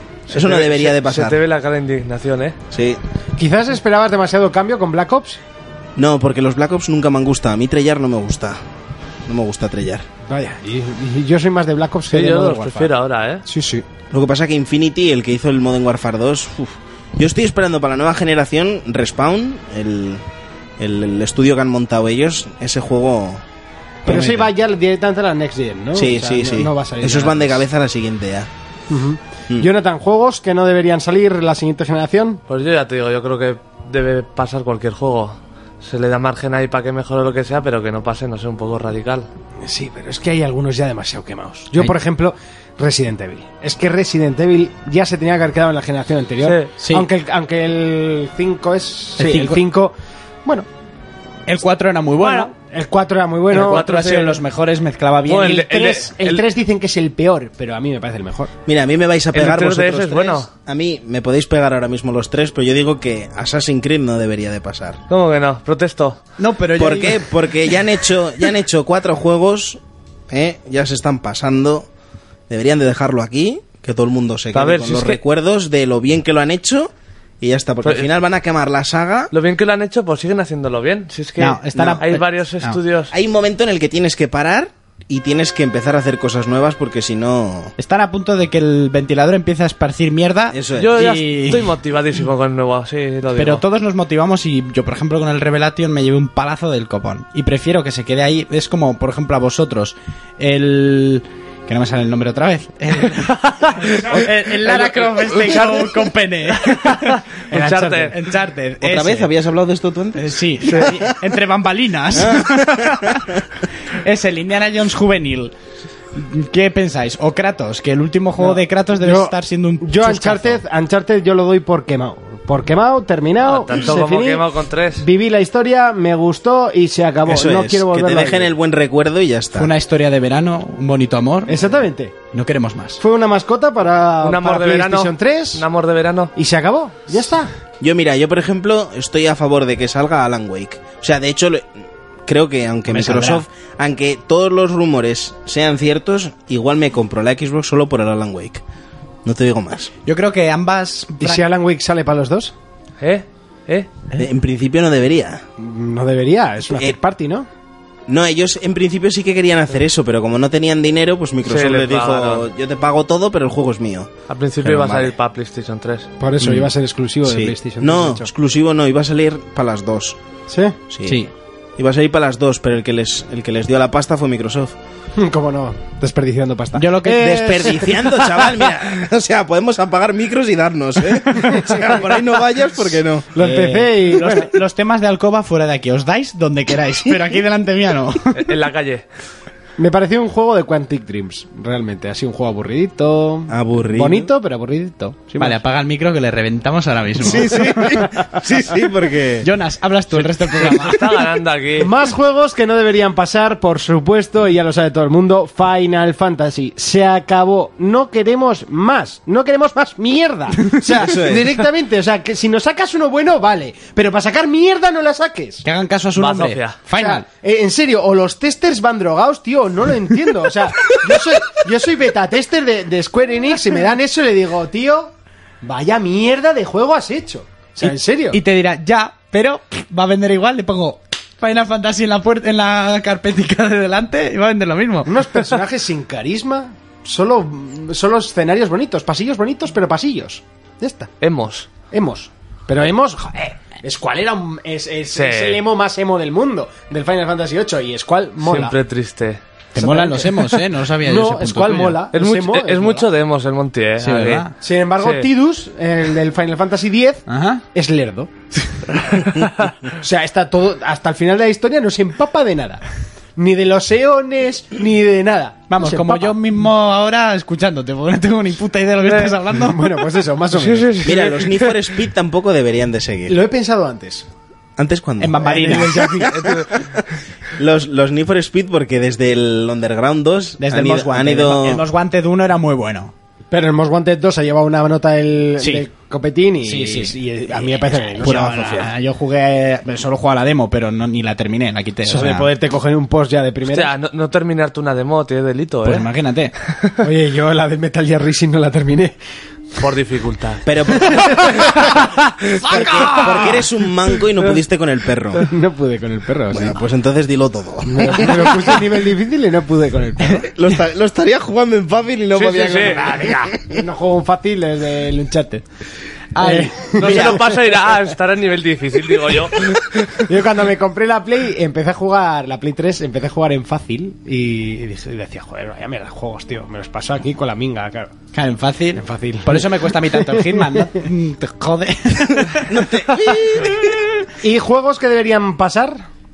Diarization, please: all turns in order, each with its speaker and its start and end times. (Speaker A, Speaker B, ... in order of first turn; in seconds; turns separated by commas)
Speaker A: 0.3-1.4, Speaker B: 0.3-2.6, Speaker A: 2.7-3.0, Speaker C: 3.4-5.4, Speaker A: 6.0-8.6, Speaker A: 9.3-10.0, Speaker C: 10.3-12.9, Speaker B: 12.1-13.4, Speaker C: 13.4-13.8, Speaker A: 14.1-20.2, Speaker A: 20.8-23.4, Speaker A: 24.0-24.5, Speaker C: 24.0-27.6, Speaker A: 25.9-28.5, Speaker C: 28.9-32.4, Speaker B: 32.5-39.3, Speaker C: 39.6-49.9, Speaker B: 46.4-46.7, Speaker D: 46.8-47.0, Speaker D: 49.2-49.6, Speaker A: 49.2-49.5, Speaker D: 51.5-52.5, Speaker C: 52.2-53.9, Speaker D: 53.5-55.7, Speaker B: 53.6-54.4, Speaker B: 55.3-56.4, Speaker C: 55.4-58.5, Speaker A: 58.6-65.0, Speaker B: 59.3-60.5, Speaker B: 65.1-66.2, Speaker D: 66.4-67.3, Speaker A: 66.7-71.9, Speaker A: 72.5-79.3, Speaker B: 74.5-75.2, Speaker B: 77.8-78.1, Speaker B: 79.3-83.1, Speaker D: 81.4-82.8, Speaker A: 81.8-82.0, Speaker A: 83.1-87.7, Speaker D: 87.8-91.7, Speaker A: 90.5-90.9, Speaker B: 90.8-93.6, Speaker D: 93.3-107.2, Speaker B: 103.3-104.2, Speaker C: 104.1-105.6, Speaker B: 105.2-105.7, Speaker B: 106.9-108.1, Speaker C: 107.5-108.2, Speaker D: 108.1-109.3, Speaker A: 108.8-111.0, Speaker D: 110.2-113.2, Speaker A: 112.1-113.3, Speaker D: 114.0-115.5, Speaker D: 116.1-120.6, Speaker C: 118.4-124.5, Speaker B: 123.4-125.0, Speaker C: 125.0-128.5, Speaker A: 127.2-129.7, Speaker D: 129.6-131.6, Speaker C: 131.5-132.2, Speaker D: 132.3-133.0, Speaker C: 133.0-135.6, Speaker B: 134.2-136.3, Speaker C: 136.3-137.5, Speaker A: 137.8-141.7, Speaker A: 142.3-148.6, Speaker D: 142.9-143.4, Speaker A: 149.2-149.9, Speaker D: 150.1-151.4, Speaker C: 151.2-152.5, Speaker B: 153.0-153.9, Speaker A: 154.2-155.4, Speaker C: 155.6-157.5, Speaker A: 158.1-164.1, Speaker B: 161.4-162.4, Speaker B: 164.3-166.1, Speaker A: 164.6-165.1, Speaker C: 166.2-168.3, Speaker A: 166.4-166.7, Speaker A: 167.2-170.2, Speaker C: 170.5-170.8, Speaker A: 170.9-171.2, Speaker D: 171.0-171.3, Speaker A: 171.8-174.7, Speaker C: 175.2-178.7, Speaker D: 176.7-177.8, Speaker A: 177.2-183.3, Speaker C: 181.5-182.0, Speaker C: 183.3-184.5, Speaker D: 183.4-188.3, Speaker B: 188.3-189.0, Speaker C: 189.8-195.6, Speaker A: 193.5-194.3, Speaker D: 195.4-197.8, Speaker A: 197.2-199.5, Speaker C: 197.4-198.4, Speaker D: 199.4-201.0, Speaker B: 200.1-201.9, Speaker C: 201.8-215.6, Speaker A: 210.8-211.5, Speaker D: 215.6-217.2, Speaker B: 216.2-216.8, Speaker C: 216.9-228.4, Speaker D: 227.8-235.1, Speaker C: 235.0-241.1, Speaker B: 241.2-241.7, Speaker C: 241.8-248.8, Speaker B: 245.1-245.6, Speaker B: 248.4-249.4, Speaker C: 249.7-250.4, Speaker D: 249.7-252.0, Speaker C: 251.0-253.1, Speaker B: 252.1-254.5, Speaker D: 254.0-254.5, Speaker C: 254.6-258.4, Speaker B: 255.0-255.2, Speaker D: 257.3-257.6, Speaker A: 259.2-259.6, Speaker C: 260.0-262.8, Speaker C: 263.4-266.3, Speaker D: 265.7-269.8, Speaker C: 269.6-271.1, Speaker B: 270.6-271.7, Speaker A: 271.0-273.4, Speaker C: 273.3-274.3, Speaker A: 274.8-277.0, Speaker D: 275.2-276.1, Speaker C: 275.4-276.5, Speaker B: 276.2-276.9, Speaker A: 277.6-281.8, Speaker D: 280.6-283.1, Speaker C: 283.5-288.9, Speaker D: 285.6-285.9, Speaker D: 286.6-287.1, Speaker D: 288.2-292.5, Speaker C: 292.1-293.9, Speaker B: 293.7-296.1, Speaker D: 295.8-296.5, Speaker C: 297.0-299.2, Speaker B: 299.8-301.1, Speaker A: 300.6-301.4, Speaker C: 301.0-302.0, Speaker A: 302.6-305.5, Speaker C: 302.6-303.7, Speaker C: 305.4-306.8, Speaker A: 306.5-308.5, Speaker C: 307.9-310.5, Speaker A: 310.4-313.8, Speaker B: 312.3-313.1, Speaker C: 312.7-315.6, Speaker D: 316.3-317.4, Speaker C: 316.4-317.4, Speaker B: 317.0-320.1, Speaker C: 320.1-328.1, Speaker D: 328.3-332.9, Speaker C: 328.9-330.9, Speaker A: 332.5-334.0, Speaker C: 334.4-336.0